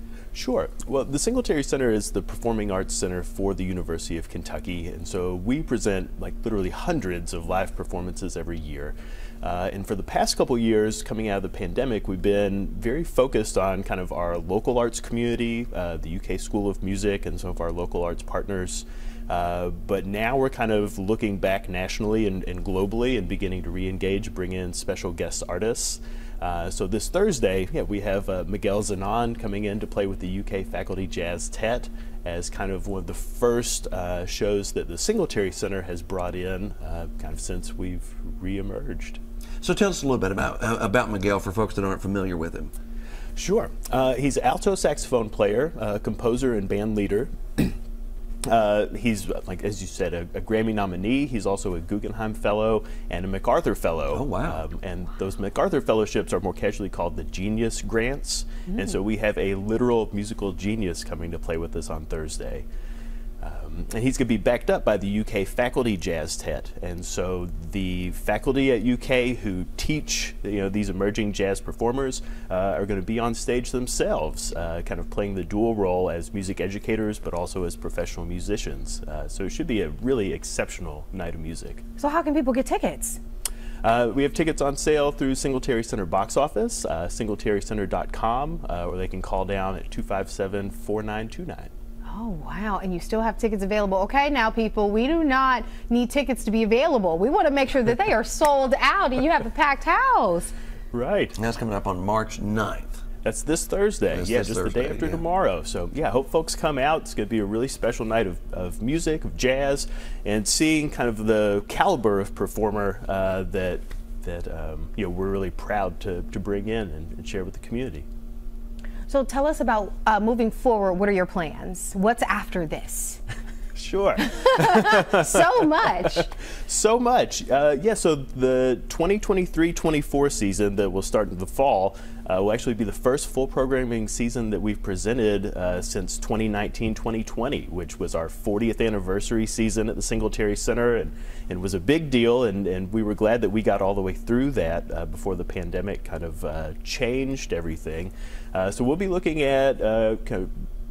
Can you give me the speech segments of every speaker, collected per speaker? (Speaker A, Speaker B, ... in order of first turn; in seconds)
Speaker A: 0.3-39.2, 43.4-47.8, 48.4-62.6, 63.4-81.8, 83.8-91.7, 100.9-101.3, 103.2-118.0, 123.7-150.5
Speaker B: 39.6-42.7, 54.1-54.6, 101.3-103.0, 104.1-105.2
Speaker C: 82.0-83.2, 92.0-100.5, 119.1-123.2, 124.2-126.3